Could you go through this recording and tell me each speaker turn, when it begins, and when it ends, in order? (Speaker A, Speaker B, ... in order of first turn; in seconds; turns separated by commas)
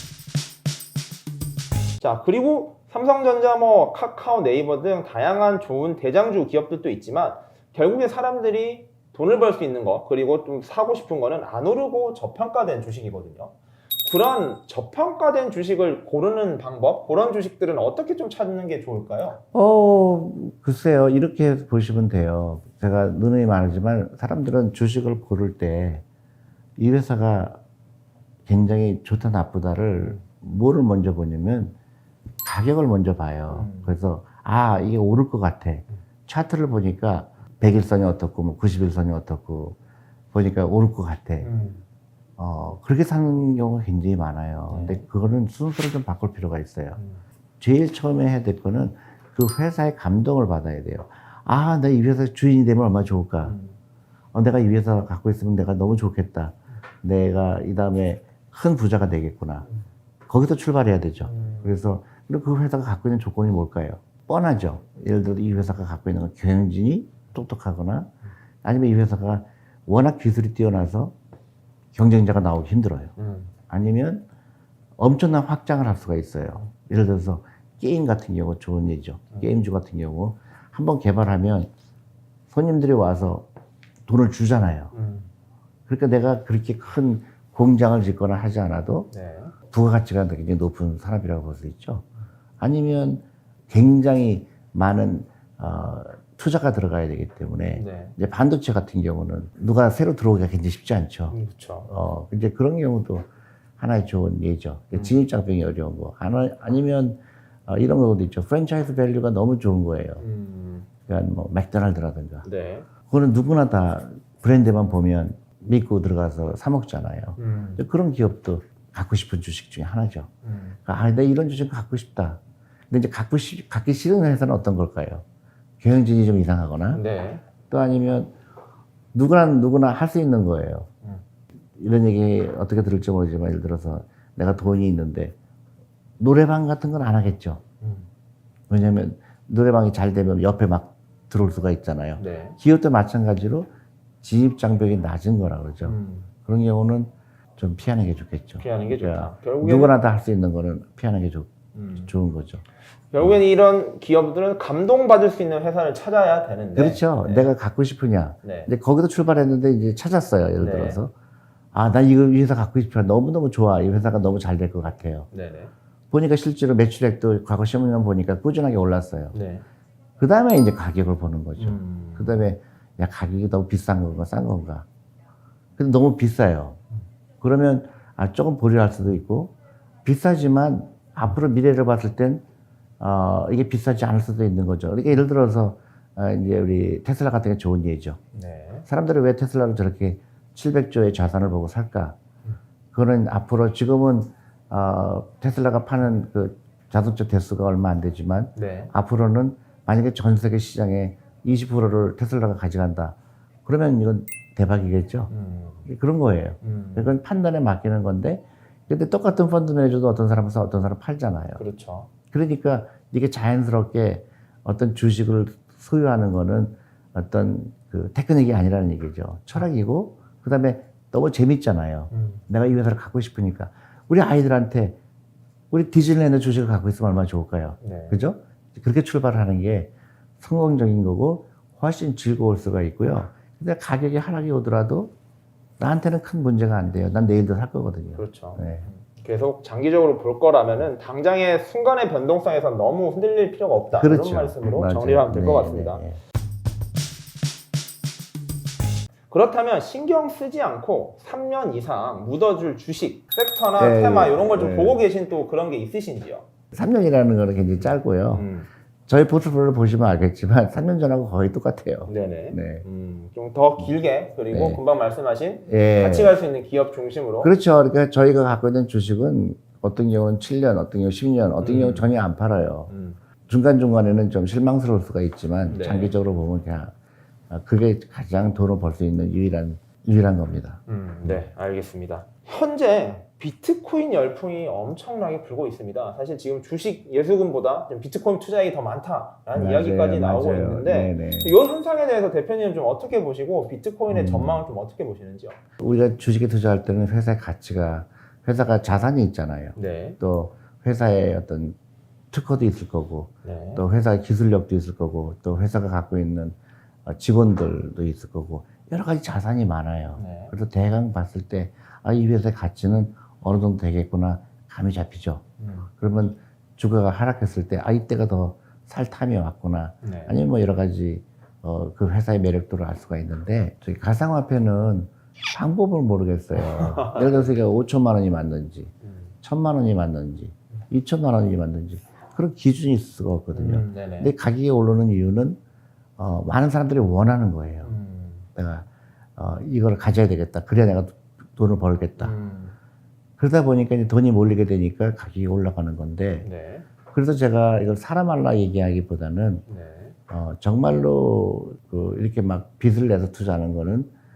Speaker A: 2.0-19.4, Speaker B: 19.5-26.0, Speaker B: 26.8-27.6, Speaker B: 28.5-31.8, Speaker B: 32.4-39.8, Speaker A: 33.5-34.0, Speaker B: 40.3-41.5, Speaker A: 41.4-41.8, Speaker B: 42.4-47.0, Speaker A: 44.7-45.0, Speaker B: 47.6-53.6, Speaker A: 53.4-53.8, Speaker B: 54.3-59.7, Speaker B: 60.3-68.1, Speaker A: 61.2-61.8, Speaker B: 68.6-71.1, Speaker B: 71.9-73.1, Speaker A: 73.2-73.5, Speaker B: 73.7-74.2, Speaker B: 75.0-81.7, Speaker B: 82.5-83.5, Speaker B: 84.1-84.9, Speaker A: 84.9-85.3, Speaker B: 85.9-89.1, Speaker A: 89.1-89.5, Speaker B: 89.7-92.0, Speaker B: 92.6-103.3, Speaker A: 97.7-98.2, Speaker A: 101.3-101.9, Speaker B: 103.8-110.2, Speaker A: 110.2-110.9, Speaker B: 111.1-112.5, Speaker A: 112.4-112.9, Speaker B: 113.1-120.3, Speaker A: 117.4-117.8, Speaker A: 120.4-120.8, Speaker B: 120.9-125.2, Speaker B: 125.8-127.0, Speaker A: 126.9-127.4, Speaker B: 127.7-128.3, Speaker B: 129.1-130.9, Speaker B: 131.8-135.3, Speaker B: 136.2-137.6, Speaker A: 137.8-138.1, Speaker B: 138.7-143.7, Speaker A: 142.2-142.6, Speaker B: 144.2-152.6, Speaker A: 145.8-146.3, Speaker A: 148.6-149.9, Speaker A: 151.7-152.1, Speaker A: 153.1-157.5, Speaker B: 156.8-161.1, Speaker A: 158.4-158.7, Speaker A: 160.6-161.0, Speaker B: 161.7-165.3, Speaker A: 165.3-165.7, Speaker B: 166.1-169.4, Speaker A: 169.3-169.7, Speaker B: 170.2-174.9, Speaker A: 171.6-172.4, Speaker B: 175.8-176.8, Speaker B: 177.4-179.5, Speaker B: 180.1-182.4, Speaker B: 183.0-188.2, Speaker A: 188.3-188.9, Speaker B: 188.9-192.2, Speaker B: 192.9-205.3, Speaker A: 198.6-198.9, Speaker A: 205.3-205.9, Speaker B: 205.9-211.6, Speaker A: 206.6-207.1, Speaker A: 211.6-212.1, Speaker B: 212.3-225.0, Speaker A: 222.1-222.4, Speaker B: 225.7-235.1, Speaker A: 227.8-228.2, Speaker B: 235.8-238.9, Speaker A: 238.2-246.0, Speaker B: 243.9-246.2, Speaker A: 249.3-256.5, Speaker B: 253.8-255.0, Speaker B: 256.7-258.5, Speaker A: 258.3-258.7, Speaker B: 259.1-262.8, Speaker A: 262.1-267.5, Speaker B: 264.5-264.8, Speaker B: 265.7-266.4, Speaker B: 267.4-272.9, Speaker A: 271.6-272.1, Speaker A: 272.9-273.2, Speaker B: 273.5-276.9, Speaker A: 275.7-276.1, Speaker B: 277.5-281.4, Speaker A: 280.9-295.6, Speaker B: 289.6-291.6, Speaker B: 294.1-294.6, Speaker B: 295.8-301.8, Speaker A: 299.8-300.2, Speaker B: 302.3-315.4, Speaker A: 303.4-303.8, Speaker A: 310.2-310.5, Speaker A: 315.6-315.9, Speaker B: 316.0-335.6, Speaker A: 320.0-320.4, Speaker A: 326.6-327.5, Speaker A: 329.0-329.3, Speaker A: 333.5-334.3, Speaker B: 336.2-337.9, Speaker A: 337.8-338.5, Speaker B: 338.6-342.3, Speaker A: 342.2-342.8, Speaker B: 343.4-346.5, Speaker A: 346.4-346.9, Speaker B: 347.1-349.6, Speaker A: 349.7-350.2, Speaker B: 350.3-354.1